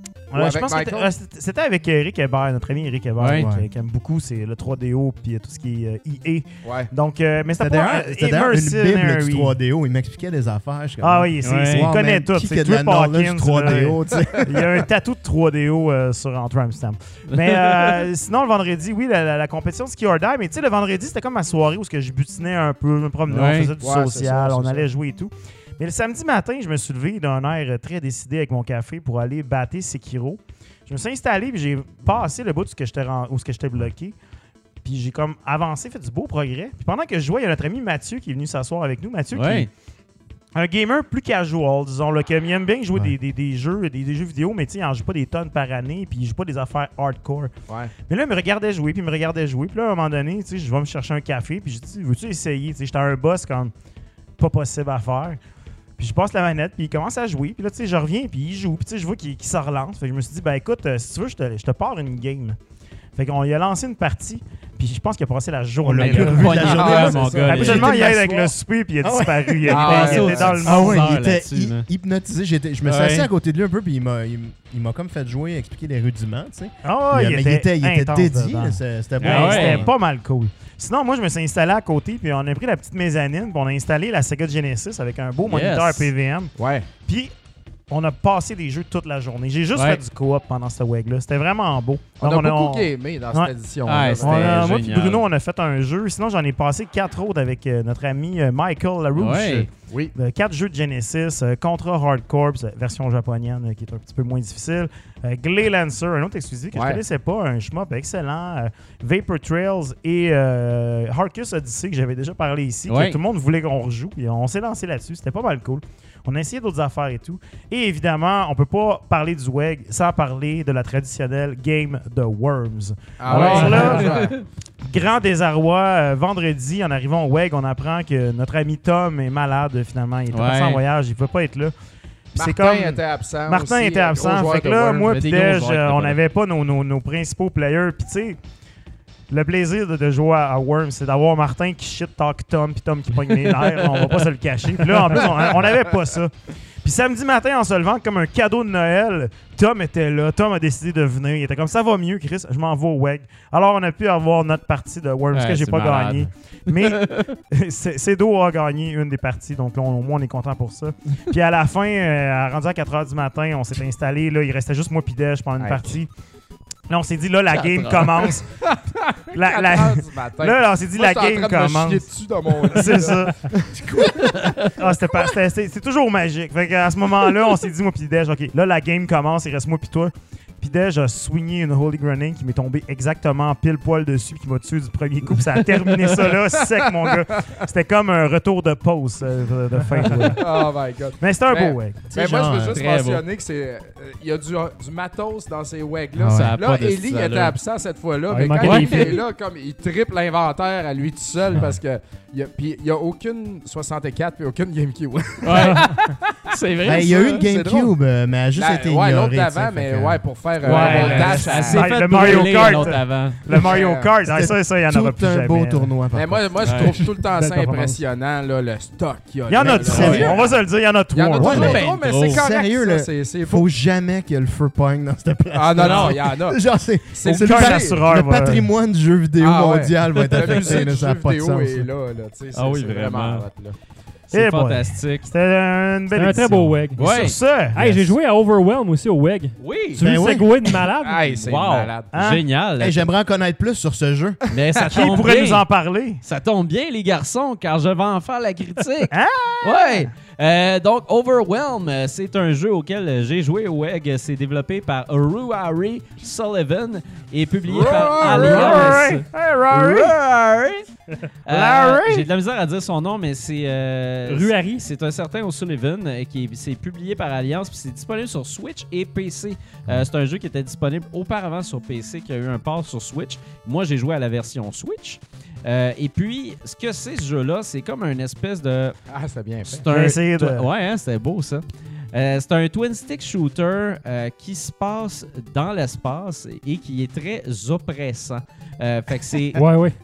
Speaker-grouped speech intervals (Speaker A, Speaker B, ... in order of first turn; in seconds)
Speaker A: 0.3-9.6, 11.0-34.2, 34.8-39.7, 40.5-47.5, 48.0-53.7, 54.4-55.4, 56.0-62.6, 63.1-71.1, 76.8-86.5, 87.0-87.3, 87.9-93.5, 94.2-124.3, 124.9-131.7, 132.3-138.4, 139.3-166.1, 166.9-168.5, 169.3-173.4, 174.5-190.7, 191.2-192.1, 210.7-215.9, 219.5-221.8, 225.8-226.1, 227.3-228.7, 234.3-238.1, 242.1-242.4, 244.9-246.2, 249.1-250.1, 257.9-260.1, 261.5-262.3, 279.9-280.7
Speaker B: 0.3-1.1, 6.6-6.9, 23.8-24.9, 66.6-67.9, 69.7-70.6, 86.6-86.9, 92.2-94.8, 106.7-107.0, 123.2-124.4, 132.4-135.2, 165.6-165.9, 168.6-174.1, 187.0-187.6, 190.3-206.1, 206.9-207.9, 208.6-212.6, 213.6-214.1, 216.1-220.6, 221.1-223.7, 225.5-226.6, 227.1-228.0, 229.4-233.8, 241.0-242.1, 244.8-245.1, 257.7-259.1, 279.1-279.9
Speaker C: 3.2-3.5, 11.4-11.9, 17.3-18.0, 23.3-23.7, 39.3-39.7, 66.0-68.0, 69.7-71.9, 72.8-73.3, 79.2-79.9, 85.4-86.1, 89.8-90.0, 93.9-95.2, 99.2-99.7, 112.9-113.2, 123.3-124.5, 130.3-130.8, 135.1-136.2, 155.3-157.3, 167.5-168.4, 174.2-174.7, 192.7-193.2, 196.3-197.6, 198.6-199.2, 205.4-207.4, 210.6-213.6, 216.6-217.0, 219.9-220.3, 221.4-222.5, 225.8-226.1, 232.5-233.5, 234.3-235.3, 237.0-237.4, 239.6-240.0, 241.3-243.1, 244.5-245.7, 246.2-260.9, 261.5-279.0, 279.7-289.7
Speaker D: 3.4-3.7, 7.6-14.8, 65.8-68.5, 69.0-79.9, 192.1-192.8, 196.1-196.6, 206.8-210.2, 214.3-216.9, 219.6-220.4, 221.4-231.9, 240.0-240.7, 242.8-244.4
Speaker E: 198.3-199.2, 217.2-218.0, 236.1-237.0, 237.7-241.3, 264.3-264.9, 289.6-290.0